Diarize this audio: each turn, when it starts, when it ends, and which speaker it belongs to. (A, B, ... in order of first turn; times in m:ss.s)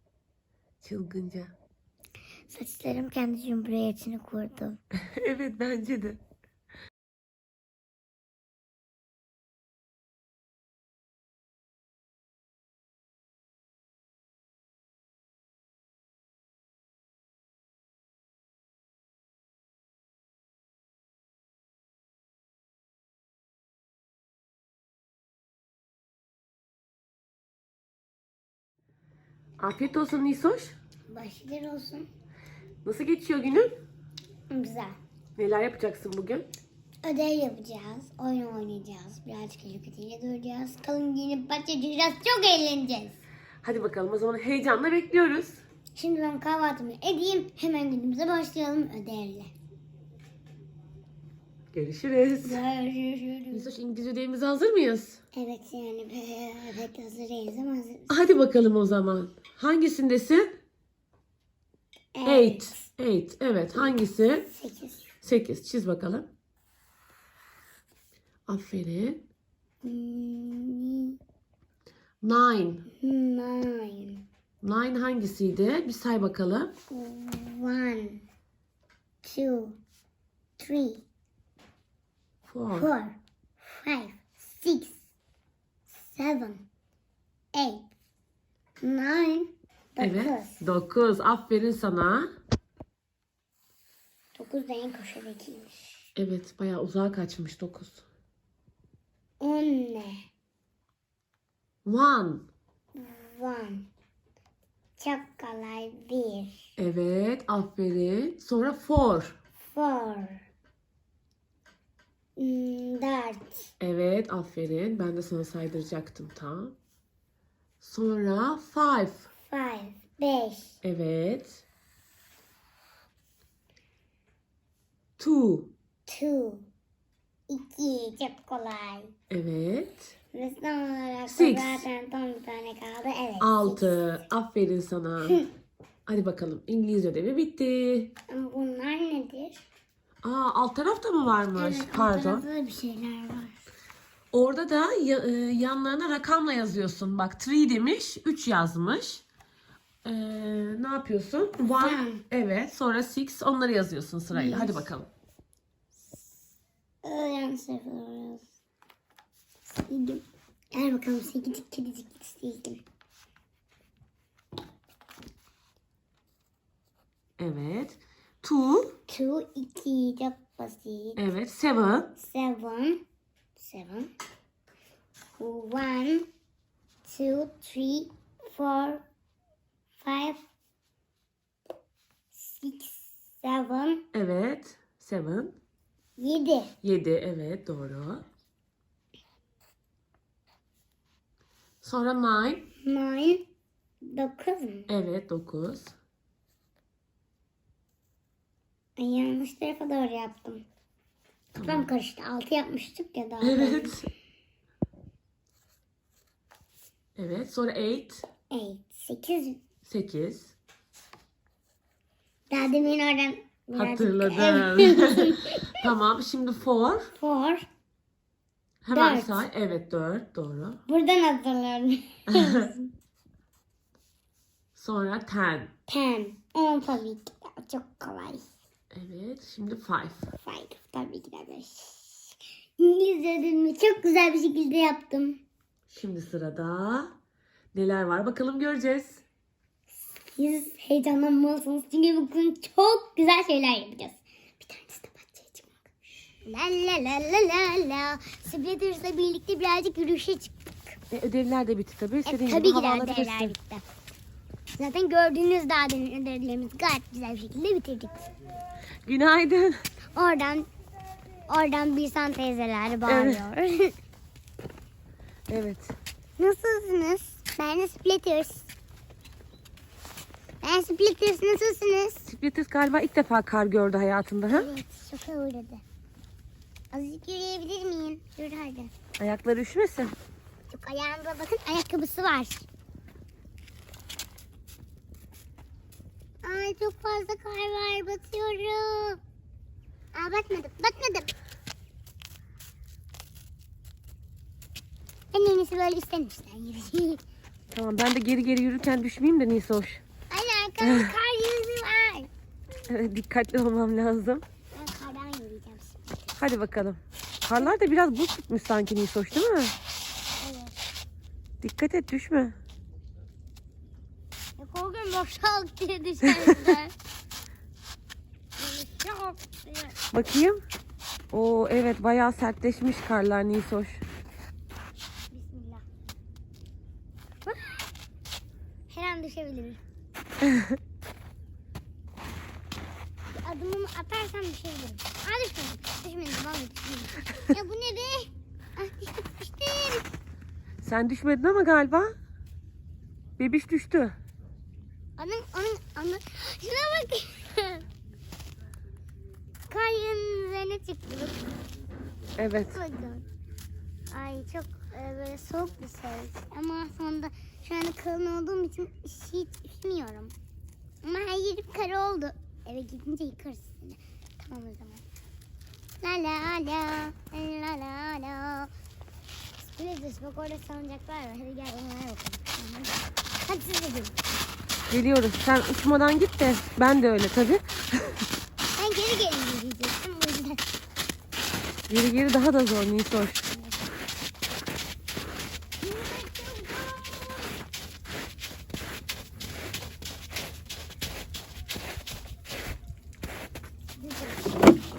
0:00.8-0:01.5 A
0:02.5-0:04.8 B
0:05.0-0:06.2 A
0:29.6-0:30.8 A
0:31.1-0:32.1 B
0:32.8-0:33.7 A
0:34.5-0:35.0 B
0:35.4-0:36.5 A
0:37.0-0:43.2 B
0:43.6-0:45.6 A
0:46.0-0:49.5 B
0:51.7-0:52.6 A
0:52.4-0:53.7 B
0:53.5-0:55.2 A
0:55.3-0:58.2 B
0:58.1-1:00.5 A
1:02.2-1:02.8 B
1:02.2-1:04.5 A
1:04.5-1:05.0 B
1:05.2-1:06.3 A
1:08.5-1:09.2 A
1:09.8-1:11.2 B
1:12.2-1:12.9 A
1:13.0-1:14.2 B
1:14.6-1:16.7 A
1:16.9-1:18.2 B
1:19.2-1:19.8 B
1:20.6-1:21.0 B
1:22.5-1:22.9 A
1:22.7-1:25.0 B
1:26.0-1:26.7 B
1:27.6-1:27.9 B
1:28.8-1:30.6 B
1:30.0-1:32.3 A
1:34.4-1:36.0 B
1:36.2-1:38.1 A
1:39.4-1:40.3 B
1:41.8-1:42.5 A
1:43.0-1:43.9 B
1:45.0-1:46.7 B
1:46.8-1:49.4 A
1:49.7-1:50.5 B
1:52.4-1:53.7 B
1:53.8-1:56.8 A
1:57.8-1:59.3 A
1:59.5-2:00.8 B
2:00.8-2:01.6 A
2:05.2-2:05.7 A
2:06.1-2:06.7 B
2:07.5-2:09.1 B
2:09.3-2:10.1 A
2:10.3-2:14.0 B
2:11.3-2:11.9 A
2:13.4-2:15.4 A
2:16.1-2:18.1 A
2:18.3-2:19.6 B
2:20.2-2:22.5 A
2:21.6-2:23.6 B
2:24.3-2:29.2 A
2:30.0-2:35.1 A
2:31.8-2:32.2 B
2:34.3-2:34.9 B
2:37.0-2:38.5 B
2:39.7-2:42.8 B
2:47.4-2:49.0 A
2:49.1-2:51.2 B
2:51.2-2:52.1 A
2:52.2-2:53.0 B
2:53.6-2:54.1 B
2:55.4-2:56.3 B
2:57.0-2:59.1 B
3:00.0-3:00.4 B
3:02.3-3:04.0 B
3:04.1-3:05.6 A
3:06.2-3:06.7 B
3:06.8-3:08.3 A
3:11.8-3:12.7 A
3:12.8-3:13.4 B
3:14.0-3:14.9 B
3:14.9-3:16.0 A
3:19.0-3:20.6 B
3:21.6-3:21.9 A
3:21.6-3:24.0 B
3:23.4-3:24.1 A
3:27.2-3:28.2 A
3:28.5-3:29.6 B
3:29.8-3:30.5 A
3:32.5-3:35.9 B
3:33.8-3:37.1 A
3:37.2-3:37.7 B
3:38.8-3:40.8 A
3:38.9-3:39.5 B
3:40.9-3:42.9 B
3:42.3-3:42.7 A
3:44.8-3:45.7 A
3:45.9-3:48.5 B
3:48.9-3:50.3 A
3:50.4-3:55.4 B
3:55.9-3:57.1 A
3:57.7-3:59.2 A
4:00.2-4:10.6 B
4:11.1-4:13.6 A
4:12.3-4:13.8 B
4:14.7-4:18.2 B
4:19.0-4:19.8 A
4:20.1-4:20.7 B
4:21.5-4:24.0 B
4:23.1-4:23.5 A
4:25.5-4:26.0 A
4:26.4-4:28.7 B
4:30.6-4:32.3 B
4:32.3-4:34.7 A
4:34.5-4:35.8 B
4:36.9-4:38.9 B
4:39.2-4:40.2 A
4:40.7-4:42.7 B
4:46.4-4:49.2 B
4:50.1-4:51.3 B
4:55.3-4:57.2 B
4:57.7-5:00.0 A
5:00.3-5:02.3 B
5:00.8-5:01.1 A
5:02.9-5:04.4 A
5:04.7-5:06.2 B
5:06.4-5:09.8 A
5:10.4-5:10.8 B
5:11.6-5:12.6 A
5:14.6-5:16.9 B
5:18.6-5:20.0 B
5:20.1-5:20.6 A
5:21.3-5:24.0 A
5:25.3-5:25.8 B
5:27.5-5:27.8 B
5:28.9-5:29.8 B
5:33.4-5:40.0 B
5:40.8-5:42.2 A
5:43.4-5:44.2 A
5:45.2-5:47.8 B
5:49.7-5:51.5 B
5:52.4-5:52.8 A
5:52.7-5:53.3 B
5:54.1-6:00.3 B
6:01.0-6:05.0 B
6:06.0-6:08.7 B
6:09.6-6:14.2 B
6:14.9-6:18.2 A
6:18.8-6:20.6 B
6:21.9-6:23.5 A
6:23.5-6:23.8 B
6:25.8-6:27.5 B
6:34.0-6:34.5 B